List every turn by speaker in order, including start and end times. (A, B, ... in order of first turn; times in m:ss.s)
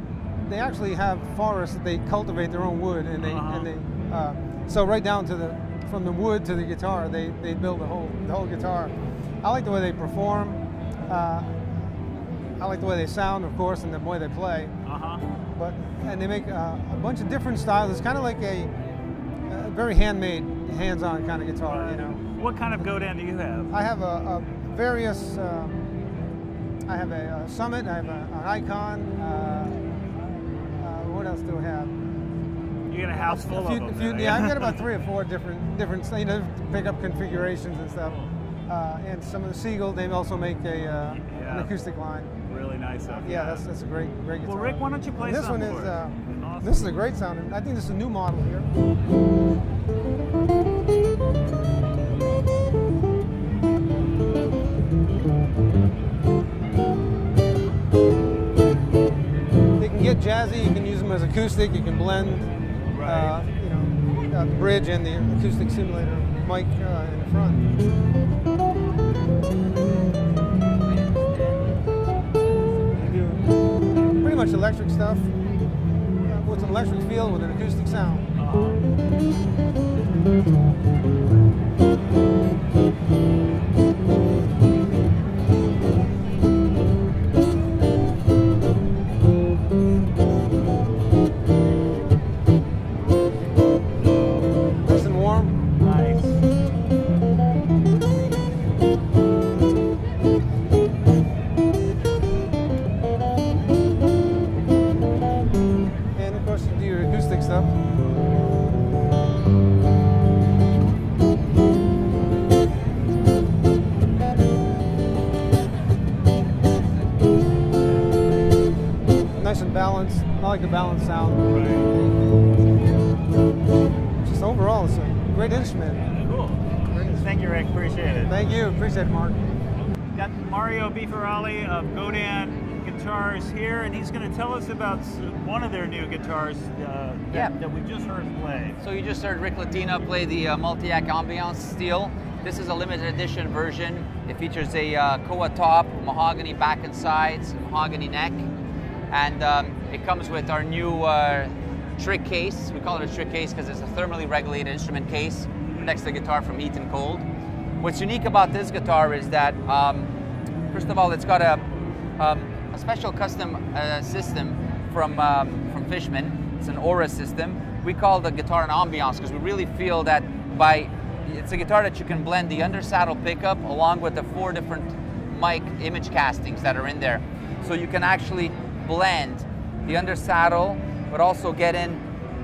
0:00.4-0:11.6 A
0:03.2-0:03.7 B
0:12.6-0:14.7 A
0:14.8-0:15.2 B
0:15.5-0:18.7 A
0:19.5-0:22.2 A
0:21.6-0:23.7 B
0:23.7-0:25.9 A
0:26.9-0:29.8 A
0:30.8-0:31.9 A
0:32.9-0:34.8 B
0:33.1-0:42.3 A
0:38.0-0:38.3 B
0:41.2-0:41.7 B
0:42.4-0:43.6 B
0:43.1-0:48.7 A
0:44.4-0:46.9 B
0:59.8-1:02.5 A
1:02.9-1:03.4 B
1:03.0-1:07.7 A
1:12.9-1:13.4 A
1:14.2-1:15.3 A
1:16.2-1:18.2 A
1:18.4-1:18.8 B
1:34.8-1:35.6 A
1:35.7-1:36.4 B
1:46.1-1:47.7 A
1:59.4-2:01.4 A
2:01.5-2:01.9 B
2:04.2-2:06.0 A
2:06.1-2:08.3 B
2:06.9-2:07.3 A
2:08.3-2:09.5 A
2:10.1-2:18.8 B
2:18.8-2:28.4 C
2:29.1-2:37.2 C
2:37.8-2:40.1 C
2:40.7-2:41.6 C
2:42.2-3:02.0 C